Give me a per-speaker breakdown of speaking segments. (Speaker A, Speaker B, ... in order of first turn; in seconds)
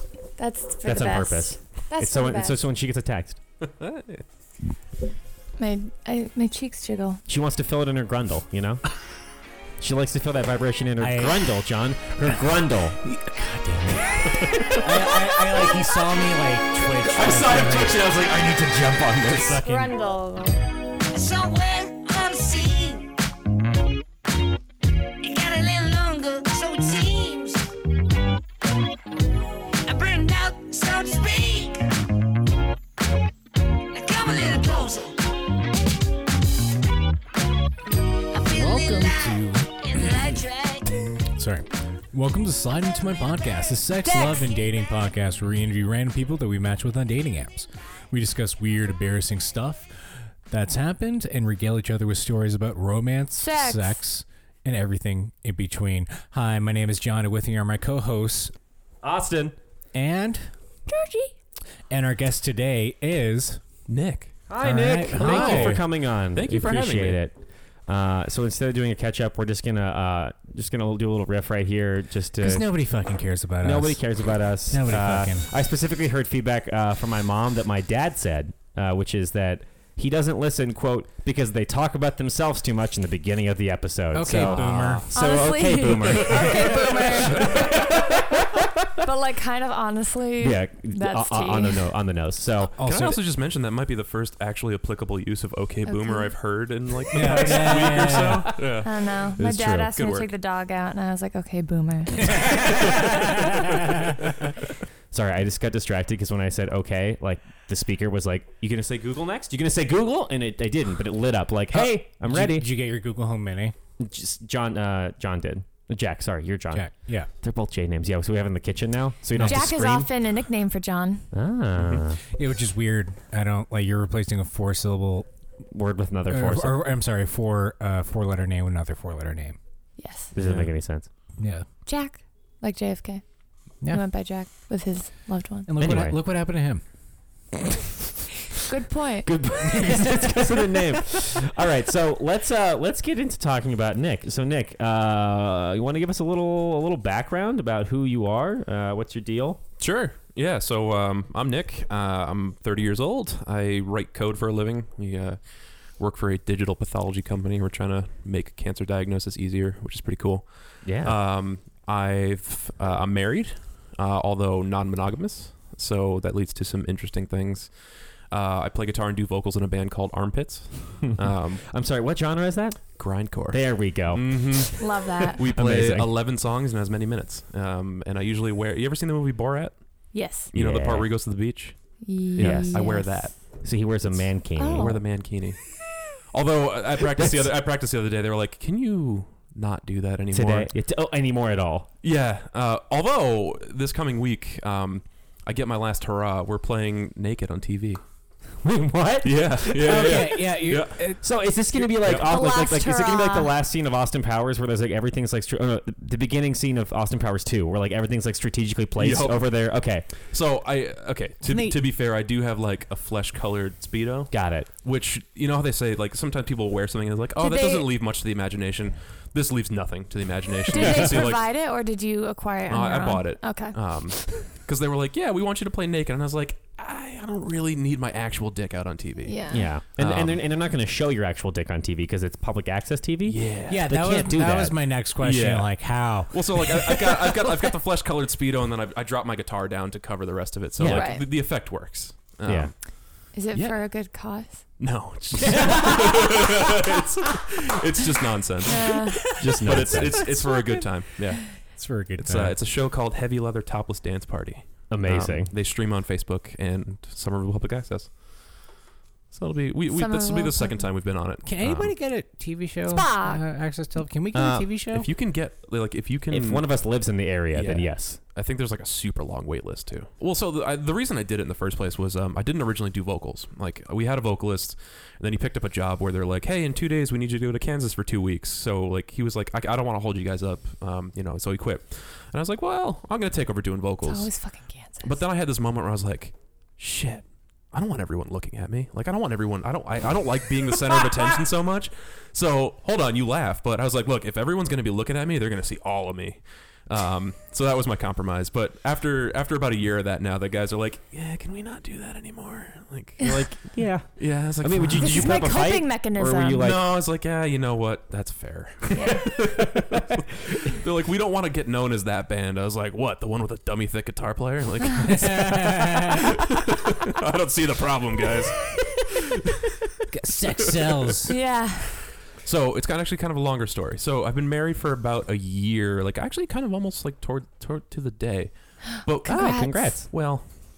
Speaker A: 0.4-2.6, 5.6-7.2, 19.6-20.6, 53.4-54.0, 60.9-61.3, 85.1-88.0, 89.0-91.9, 95.9-96.3, 98.8-103.0, 119.4-121.3, 130.0-130.3, 131.9-133.2, 133.9-135.7, 138.7-139.3, 174.8-175.4, 180.1-180.5, 182.0-183.3, 184.6-185.0, 202.1-203.5, 217.4-217.9, 220.7-224.5, 229.2-229.7, 240.9-241.3, 243.3-244.7, 248.7-249.4, 259.9-260.9, 262.9-263.4, 284.0-285.2, 303.2-303.5, 304.9-306.7, 308.9-309.4, 321.3-322.0
Speaker B: 0.8-3.4, 7.3-8.8, 9.8-13.0, 17.1-19.6, 59.0-59.6, 64.5-72.7, 73.6-88.8, 90.4-92.8, 97.4-98.2, 99.4-99.9, 105.1-112.7, 114.0-120.1, 121.3-122.2, 125.7-126.8, 130.3-131.1, 135.8-136.2, 139.2-149.6, 160.8-161.2, 171.7-176.1, 180.5-181.1, 182.4-182.8, 183.6-184.9, 190.3-191.9, 198.6-200.4, 201.2-210.1, 214.3-214.7, 229.5-234.8, 240.8-241.1, 242.4-242.7, 249.4-250.3, 254.9-255.5, 264.3-264.7, 266.3-268.2, 303.7-306.8, 309.3-310.0, 329.2-330.2
Speaker C: 3.6-4.2, 17.2-17.9, 63.9-64.5, 65.1-67.2, 84.5-85.2, 85.9-87.8, 92.8-99.4, 99.9-100.3, 104.2-104.6, 149.8-171.7, 173.0-179.8, 180.5-183.4, 183.9-190.7, 192.0-198.0, 199.2-201.2, 201.8-202.4, 209.0-221.5, 222.7-230.4, 233.2-233.9, 235.2-243.8, 244.8-258.7, 259.3-262.0, 264.9-266.9, 267.5-284.3, 285.0-305.6, 306.6-320.0, 320.6-321.3, 322.4-330.5
Speaker D: 11.0-11.5, 13.0-18.1, 19.3-19.9, 38.5-39.7, 41.4-58.5, 59.9-60.5, 61.9-63.6, 64.6-65.8, 72.4-75.5, 84.1-85.1, 92.8-93.2, 97.1-98.5, 102.3-104.1, 111.7-113.8, 116.7-117.3, 119.3-119.6, 122.3-125.3, 126.3-129.6, 131.4-131.7, 135.7-136.8, 199.8-201.2, 211.4-211.8, 233.7-237.5, 245.4-246.4, 249.4-250.9, 251.7-252.6, 261.4-265.1, 315.1-316.3, 320.1-321.3
Speaker E: 21.1-23.1, 25.2-27.7, 29.9-32.0, 33.9-35.3, 38.3-41.2, 44.0-44.6